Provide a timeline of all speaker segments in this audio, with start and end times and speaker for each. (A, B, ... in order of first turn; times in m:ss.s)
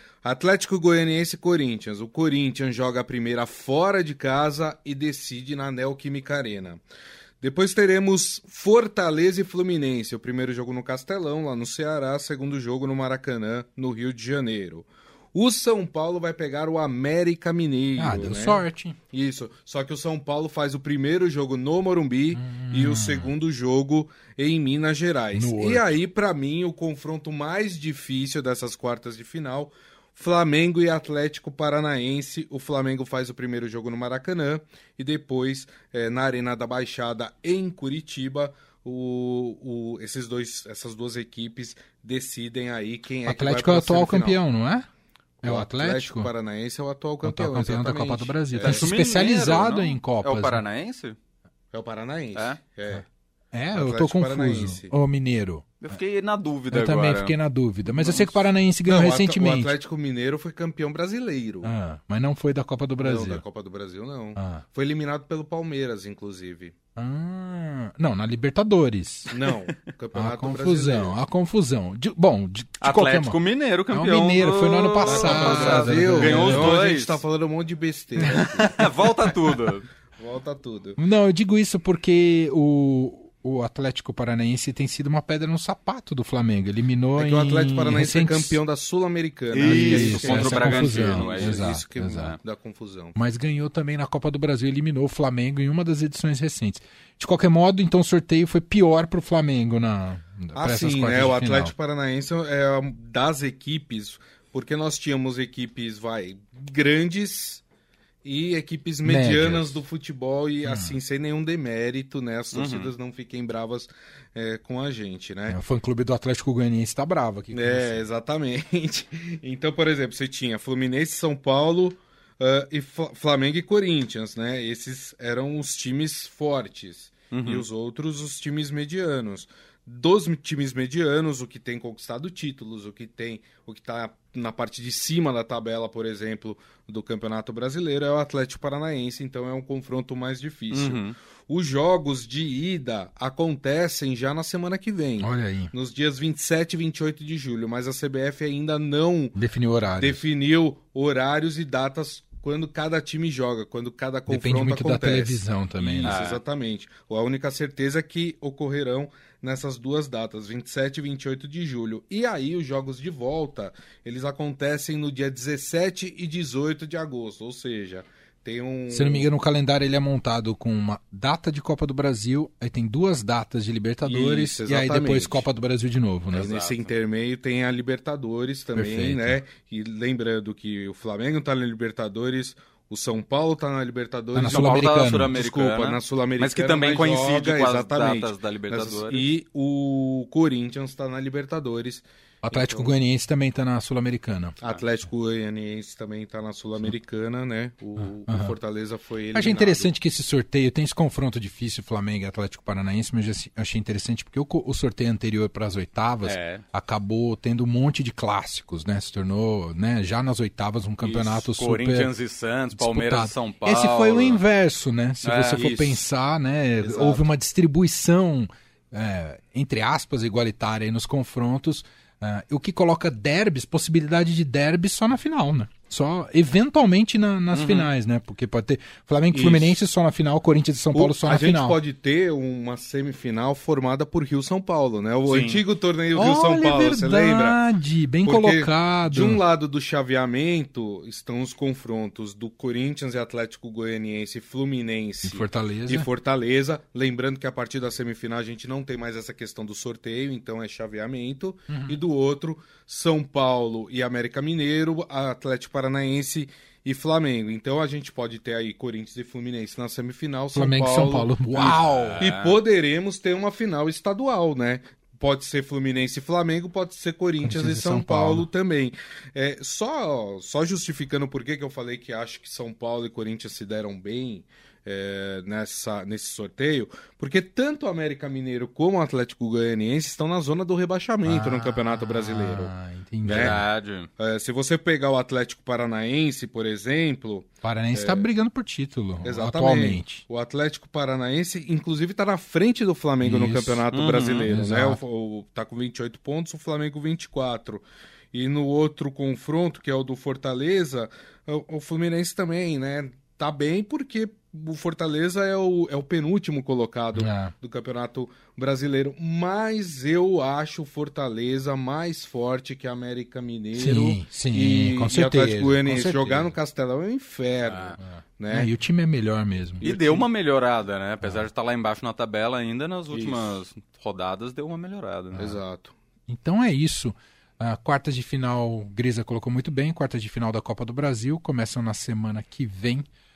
0:00.2-0:06.8 A
0:07.4-0:44.4 A
0:18.0-0:19.0 B
0:22.3-0:23.3 B
0:25.3-0:26.0 B
0:43.2-0:44.9 B
0:45.4-0:46.3 B
0:45.4-0:48.9 A
0:47.2-0:50.6 B
0:48.6-0:51.2 C
0:51.7-0:53.0 A
0:52.3-0:52.6 C
0:52.9-0:55.9 B
0:53.7-0:54.9 A
0:55.8-0:57.4 C
0:56.7-0:59.7 B
0:57.9-1:01.7 A
1:01.6-1:03.4 B
1:03.0-1:06.7 A
1:04.4-1:04.6 B
1:07.0-1:09.3 B
1:09.3-1:11.2 A
1:10.1-1:16.8 B
1:12.8-1:17.2 C
1:15.0-1:18.9 A
1:18.2-1:19.8 C
1:20.2-1:21.0 A
1:21.0-1:28.6 B
1:27.2-1:33.2 A
1:29.5-1:32.4 C
1:29.6-1:32.4 B
1:33.1-1:41.7 B
1:40.5-1:47.6 A
1:48.2-1:55.6 A
1:49.0-1:49.8 B
1:50.6-1:51.0 B
1:52.5-1:52.9 C
1:55.5-1:58.0 B
1:57.5-2:29.4 A
2:07.3-2:07.6 C
2:20.7-2:21.2 C
2:25.2-2:25.7 B
2:29.4-2:30.2 B
2:30.0-2:49.3 A
2:34.3-2:36.2 B
2:36.0-2:36.4 C
2:48.9-2:56.5 B
2:54.0-2:55.4 A
2:56.3-2:56.9 C
2:56.3-3:13.0 A
2:58.7-2:59.4 B
3:04.3-3:05.4 B
3:04.4-3:09.3 C
3:12.4-3:14.6 B
3:14.6-3:19.9 A
3:18.3-3:18.5 B
3:19.3-3:32.1 B
3:26.2-3:26.6 C
3:31.0-3:31.4 A
3:31.4-3:34.4 C
3:32.7-3:51.8 B
3:35.2-3:35.7 C
3:35.5-3:36.0 A
3:36.8-3:37.3 A
3:47.5-3:47.9 C
3:49.3-3:49.8 A
3:50.9-3:57.6 A
3:55.2-3:55.6 C
3:56.1-3:59.4 B
3:58.2-4:42.7 A
4:05.2-4:06.1 B
4:11.7-4:12.0 B
4:20.5-4:22.3 B
4:21.6-4:22.6 C
4:27.4-4:28.5 B
4:41.2-4:43.6 B
4:43.2-4:44.1 C
4:43.2-4:43.6 A
4:44.2-4:48.3 A
4:47.6-4:50.2 B
4:49.2-5:18.7 A
4:53.2-4:53.9 B
4:53.9-4:54.5 C
4:54.4-4:55.0 B
5:07.1-5:07.5 B
5:13.7-5:16.5 B
5:17.6-5:18.0 C
5:18.0-5:19.8 B
5:19.8-5:20.3 A
5:19.8-5:25.5 C
5:23.1-5:23.6 A
5:25.4-5:25.9 A
5:26.3-5:33.0 B